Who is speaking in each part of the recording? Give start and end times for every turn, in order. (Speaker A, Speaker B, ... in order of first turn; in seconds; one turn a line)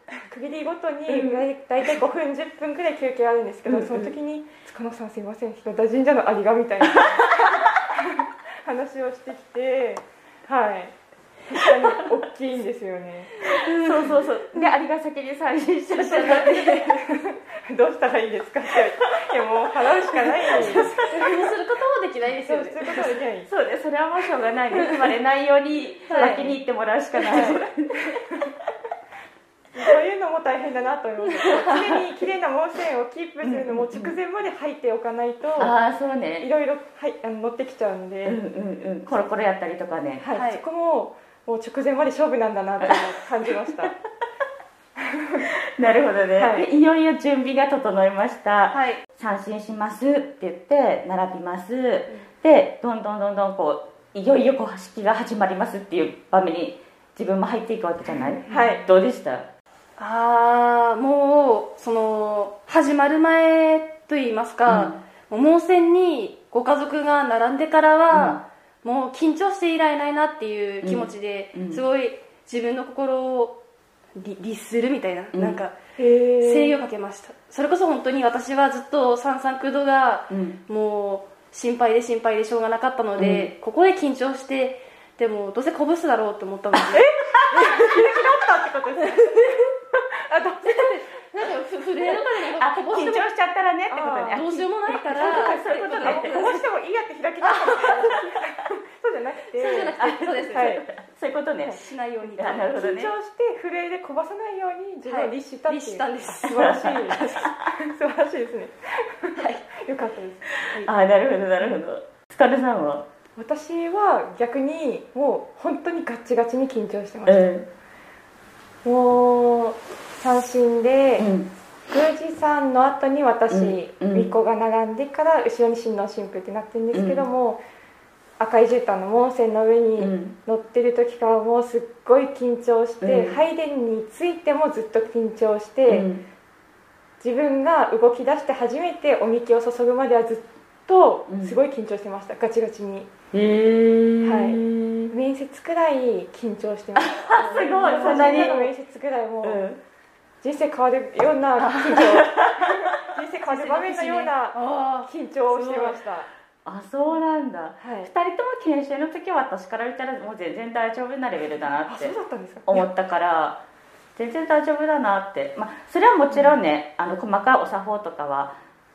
Speaker A: 0.3-10.9
Speaker B: 1.1-1.4
Speaker B: 3.6-4.1
Speaker A: 11.5-13.3
Speaker C: 13.4-14.1
Speaker B: 13.4-16.8
Speaker C: 15.9-17.2
Speaker A: 17.0-21.3
Speaker C: 20.5-23.0
Speaker B: 20.6-20.9
Speaker A: 22.4-23.5
Speaker B: 23.4-28.2
Speaker C: 24.7-25.0
Speaker C: 26.1-26.5
Speaker A: 26.1-26.5
Speaker C: 27.2-27.5
Speaker A: 27.3-27.6
Speaker A: 29.7-35.7
Speaker B: 33.4-34.1
Speaker B: 35.6-36.5
Speaker A: 36.4-38.4
Speaker B: 38.2-40.3
Speaker A: 40.2-43.9
Speaker C: 40.3-40.6
Speaker A: 45.0-45.5
Speaker B: 45.5-59.5
Speaker A: 46.4-46.7
Speaker C: 48.7-49.0
Speaker A: 58.5-58.8
Speaker C: 58.5-58.8
Speaker C: 60.0-73.6
Speaker B: 64.7-65.0
Speaker B: 68.1-68.4
Speaker B: 70.8-71.8
Speaker C: 74.2-75.8
Speaker B: 75.3-75.6
Speaker A: 76.0-76.8
Speaker C: 76.4-88.0
Speaker B: 80.3-80.6
Speaker B: 83.2-83.5
Speaker B: 86.9-88.2
Speaker A: 87.4-89.6
Speaker C: 89.0-89.7
Speaker A: 90.3-90.9
Speaker C: 90.6-93.3
Speaker B: 92.2-96.4
Speaker A: 93.9-94.4
Speaker C: 94.3-96.6
Speaker A: 95.1-100.0
Speaker C: 97.4-98.2
Speaker C: 99.5-100.8
Speaker B: 100.0-101.8
Speaker A: 100.5-100.8
Speaker C: 101.8-102.7
Speaker B: 102.4-103.1
Speaker A: 102.5-110.5
Speaker C: 105.0-107.5
Speaker B: 106.5-107.6
Speaker C: 109.4-109.6
Speaker B: 110.5-113.0
Speaker A: 113.4-117.5
Speaker B: 117.2-117.7
Speaker A: 118.8-121.3
Speaker B: 121.2-121.5
Speaker A: 121.9-127.6
Speaker B: 123.5-124.3
Speaker B: 126.9-127.2
Speaker A: 128.4-136.1
Speaker B: 130.0-130.3
Speaker B: 133.0-133.4
Speaker B: 135.9-136.2
Speaker A: 137.2-143.1
Speaker B: 141.3-141.6
Speaker B: 143.3-145.1
Speaker A: 144.2-149.6
Speaker B: 147.0-148.7
Speaker C: 147.6-148.6
Speaker B: 149.4-149.8
Speaker A: 150.4-156.3
Speaker C: 151.6-152.1
Speaker B: 151.9-152.9
Speaker C: 153.5-155.1
Speaker B: 155.6-155.9
Speaker B: 156.6-162.2
Speaker A: 157.8-158.1
Speaker A: 161.8-162.9
Speaker B: 162.7-163.6
Speaker B: 164.2-168.5